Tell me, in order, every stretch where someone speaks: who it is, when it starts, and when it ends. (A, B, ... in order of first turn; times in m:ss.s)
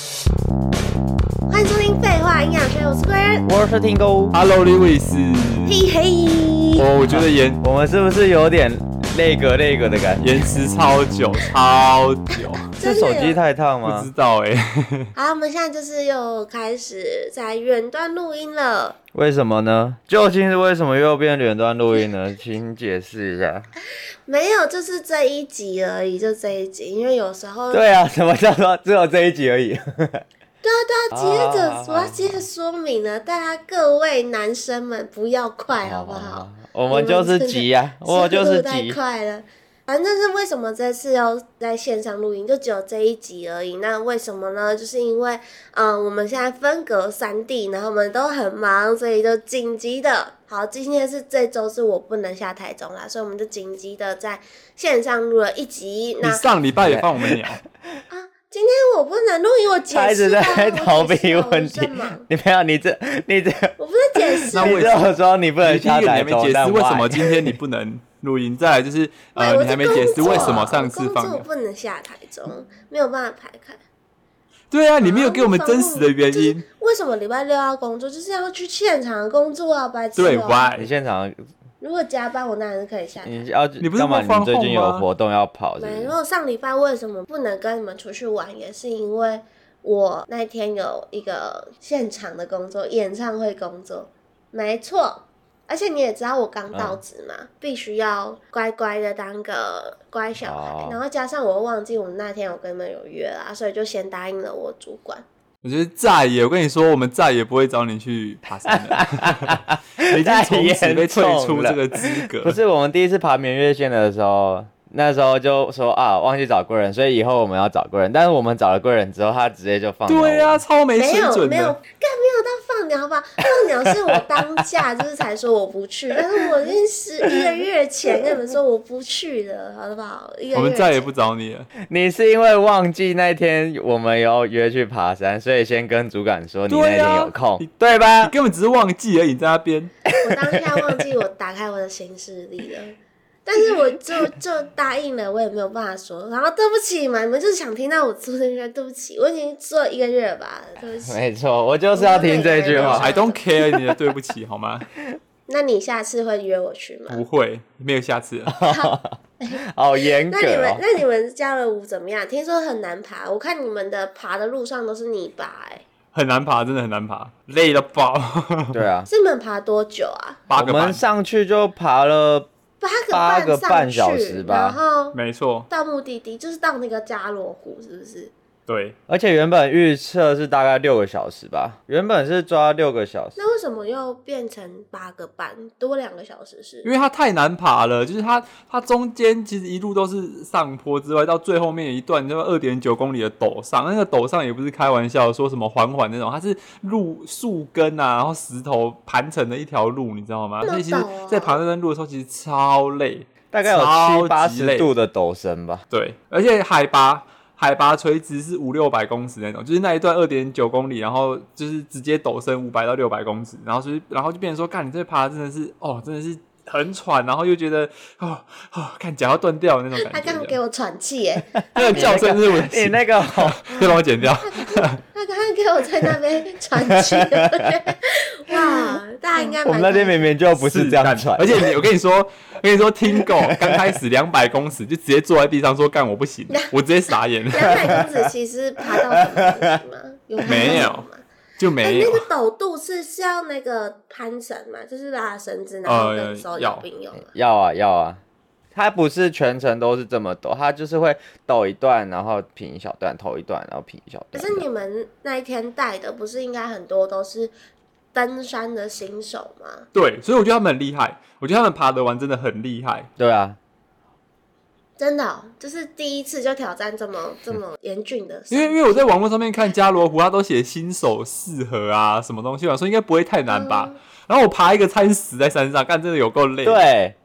0:01.5-0:03.5 A
0:03.4-0:04.3 B
0:04.3-0:05.8 C
0:05.7-0:06.9 A
0:06.8-0:07.6 C
0:07.1-0:10.3 B
0:10.2-0:12.7 C
0:12.8-0:13.4 A
0:12.8-0:14.1 B
0:13.8-0:15.1 C
0:15.2-0:19.0 A
0:19.1-0:23.7 B
0:24.2-0:27.8 A
0:27.7-0:30.2 B
0:30.6-0:56.5 A
0:31.1-0:32.4 B
0:35.7-0:39.0 B
0:56.2-0:57.6 C
0:56.8-0:57.5 B
0:58.1-1:02.2 A
0:59.9-1:07.6 B
1:03.8-1:05.1 A
1:04.5-1:05.1 C
1:05.6-1:11.4 C
1:09.4-1:13.8 A
1:10.0-1:10.7 B
1:14.7-1:16.6 C
1:15.0-1:20.7 A
1:20.2-1:20.9 C
1:20.8-1:21.4 B
1:21.8-1:23.5 A
1:23.2-1:26.1 B
1:23.8-1:25.0 C
1:25.8-1:45.2 A
1:36.7-1:37.0 B
1:40.4-1:41.0 B
1:45.6-1:52.6 C
1:48.7-2:00.6 B
2:00.1-2:01.8 C
2:01.0-2:11.0 A
2:03.6-2:04.4 B
2:10.5-2:11.7 C
2:11.8-2:18.3 B
2:16.7-2:19.9 C
2:20.1-2:31.2 A
2:20.1-2:21.0 B
2:31.0-2:34.0 B
2:31.9-2:33.4 A
2:32.7-2:34.9 C
2:35.5-2:37.2 A
2:37.1-2:38.5 C
2:38.5-2:39.1 B
2:38.6-2:45.8 A
2:39.7-2:40.8 B
2:46.1-2:48.8 C
2:48.7-2:49.1 B
2:49.1-2:50.4 A
2:50.5-2:51.0 C
2:50.5-2:52.5 B
2:52.8-2:55.2 A
2:53.1-2:54.8 B
2:55.1-2:55.7 C
2:55.7-2:58.3 A
2:58.7-2:59.0 C
2:59.1-3:03.4 B
3:03.4-3:06.9 A
3:06.8-3:24.9 C
3:20.6-3:21.6 A
3:23.5-3:25.8 B
3:25.9-3:40.6 C
3:40.0-3:42.2 A
3:41.5-3:44.0 B
3:41.8-3:45.0 C
3:44.4-3:50.2 A
3:46.8-3:47.6 B
3:49.5-3:51.7 B
3:50.6-3:57.8 C
3:53.2-3:53.9 B
3:57.5-4:01.2 A
3:57.8-3:58.2 B
3:59.1-3:59.5 B
4:00.4-4:00.9 B
4:00.4-4:01.1 C
4:01.6-4:02.2 C
4:01.8-4:07.3 A
4:05.8-4:06.8 C
4:07.3-4:08.2 B
4:08.7-4:14.6 B
4:14.3-4:17.5 A
4:18.1-4:19.8 A
4:19.9-4:23.1 C
4:23.2-4:23.6 B
4:25.0-4:29.1 A
4:28.5-4:36.8 C
4:33.5-4:34.0 A
4:36.6-4:37.1 B